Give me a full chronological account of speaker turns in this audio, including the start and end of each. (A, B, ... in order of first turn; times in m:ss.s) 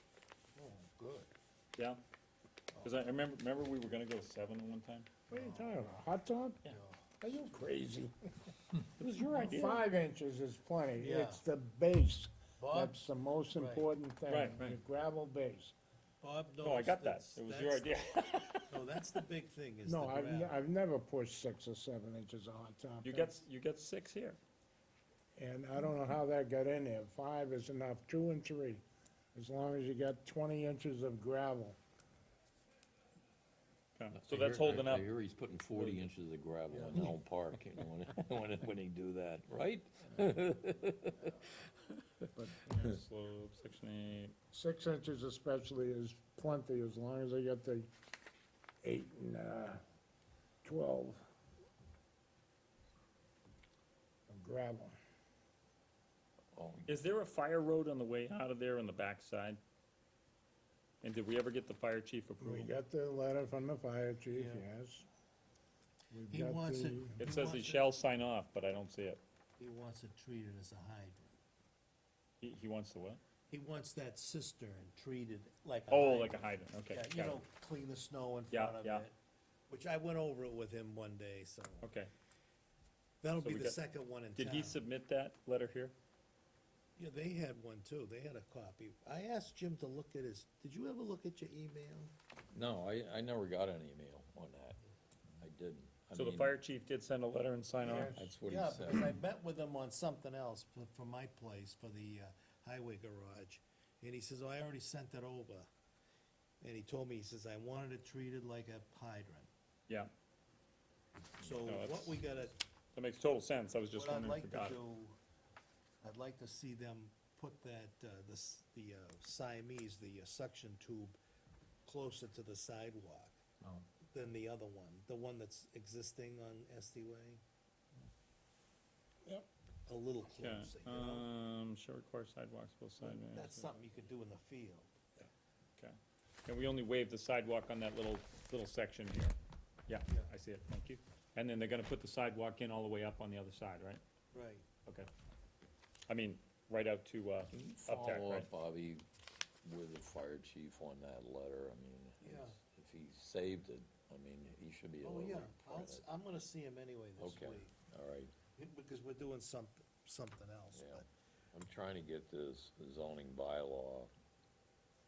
0:00.6-0:01.3 A
0:02.8-0:05.1 B
0:05.3-0:06.6 C
0:05.3-0:05.8 A
0:06.7-0:07.5 A
0:07.2-0:08.1 C
0:08.8-0:09.8 B
0:09.3-0:15.7 C
0:11.0-0:11.4 A
0:12.6-0:13.0 A
0:13.5-0:13.9 A
0:14.3-0:14.8 B
0:16.2-0:18.0 A
0:16.6-0:18.7 B
0:18.7-0:20.6 A
0:19.8-0:23.4 C
0:23.0-0:24.4 B
0:25.4-0:28.8 C
0:29.4-0:31.8 C
0:34.0-0:35.1 B
0:34.1-0:41.5 D
0:42.4-0:43.0 C
0:42.7-0:44.3 B
0:44.5-0:47.9 C
0:48.8-0:49.8 C
0:50.6-0:51.2 C
0:54.3-0:55.0 C
0:56.5-0:57.0 D
0:56.9-0:59.6 B
1:01.0-1:02.7 B
1:02.4-1:05.1 C
1:04.3-1:04.6 A
1:06.1-1:07.2 C
1:06.3-1:07.9 A
1:07.2-1:09.2 B
1:09.6-1:11.4 A
1:12.4-1:13.2 B
1:13.5-1:19.2 A
1:15.9-1:17.4 B
1:18.5-1:19.1 B
1:19.7-1:21.9 A
1:21.8-1:22.1 B
1:23.2-1:24.8 A
1:23.4-1:23.8 B
1:24.4-1:26.0 B
1:27.0-1:32.1 A
1:32.5-1:34.8 D
1:35.4-1:36.6 D
1:36.1-1:38.2 B
1:37.8-1:45.7 A
1:37.8-1:38.3 C
1:38.2-1:39.2 D
1:46.6-1:49.5 A
1:51.4-1:52.5 A
1:51.6-1:52.4 B
1:52.9-1:54.8 B
1:54.0-1:55.2 A
1:56.0-2:01.2 A
2:01.8-2:03.4 A
2:04.1-2:07.4 A
2:09.9-2:11.3 A
2:10.3-2:13.7 B
2:13.0-2:15.0 A
2:15.8-2:19.4 B
2:19.9-2:24.0 B
2:24.3-2:24.7 A
2:26.1-2:28.5 B
2:27.5-2:29.0 D
2:29.6-2:36.1 D
2:32.2-2:32.6 A
2:35.0-2:37.7 A
2:37.2-2:38.3 D
2:38.6-2:41.1 A
2:40.7-2:44.1 D